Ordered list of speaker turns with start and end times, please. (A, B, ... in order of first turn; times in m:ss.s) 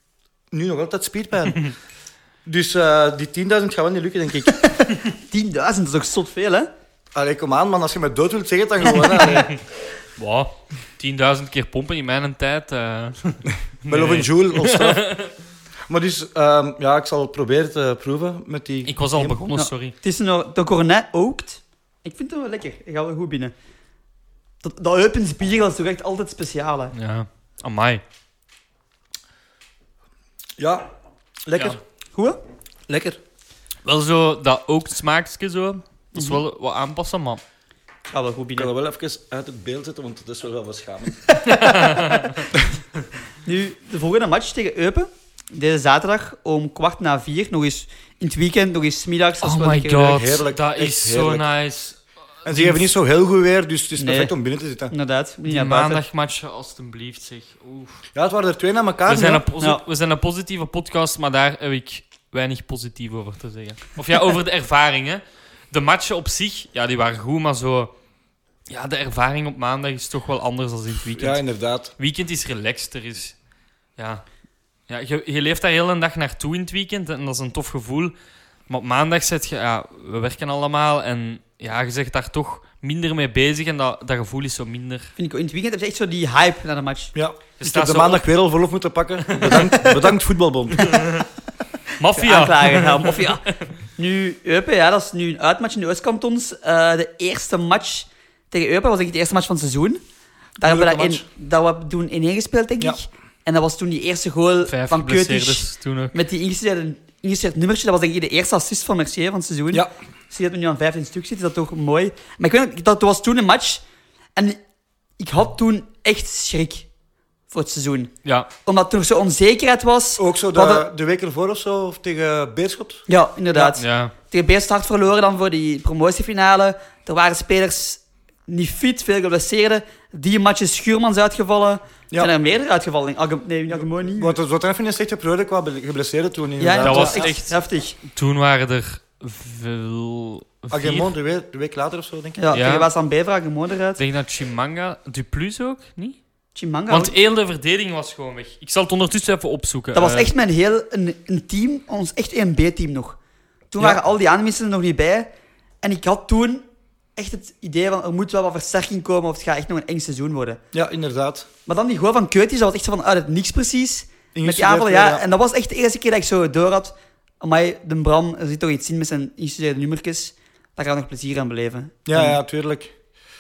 0:00.5-0:01.7 A
0:02.4-0:04.7 A
0:04.6-0:06.7 B
0:07.2-0:09.5 A
0:09.3-0:09.6 C
0:10.2-0:15.3 C
0:13.9-0:15.0 A
0:15.9-0:19.5 A
0:18.8-0:20.0 C
0:19.5-0:23.5 B
0:24.6-0:26.9 B
0:26.9-0:28.0 C
0:30.6-0:30.9 A
0:31.5-0:31.8 A
0:32.1-0:32.4 B
0:32.9-0:33.2 A
0:33.8-0:37.4 C
0:36.2-0:36.4 B
0:38.1-0:38.7 B
0:38.6-0:41.3 A
0:41.4-0:42.5 C
0:43.4-0:50.2 B
0:49.4-0:52.9 C
0:50.0-0:51.4 A
0:52.4-0:54.9 A
0:54.0-0:54.3 B
0:54.9-0:56.0 B
0:55.5-0:58.0 C
0:58.2-0:59.4 A
0:59.1-1:07.9 C
0:59.4-0:59.8 B
1:08.7-1:11.4 C
1:11.1-1:11.9 A
1:12.0-1:13.4 C
1:14.0-1:14.2 C
1:14.9-1:18.2 C
1:18.7-1:25.1 C
1:25.2-1:27.1 B
1:27.1-1:31.1 A
1:27.6-1:28.3 C
1:29.2-1:30.2 C
1:30.7-1:31.3 C
1:32.0-1:33.7 C
1:32.1-1:40.0 B
1:40.6-1:53.8 B
1:40.6-1:41.2 A
1:44.7-1:46.2 C
1:55.2-1:56.9 B
1:57.5-1:58.1 B
1:58.6-2:00.8 B
2:00.2-2:03.0 A
2:03.1-2:14.4 B
2:03.6-2:04.1 C
2:14.2-2:17.3 A
2:16.6-2:18.0 B
2:16.8-2:21.1 C
2:20.7-2:22.4 A
2:22.4-2:24.0 B
2:22.5-2:22.9 C
2:24.0-2:26.2 C
2:26.6-2:27.1 B
2:26.9-2:30.3 C
2:29.9-2:33.2 B
2:33.7-2:35.3 B
2:35.8-2:36.6 B
2:37.2-2:40.6 B
2:40.7-2:41.5 A
2:41.7-2:52.4 B
2:44.3-2:45.2 A
2:52.1-2:52.9 A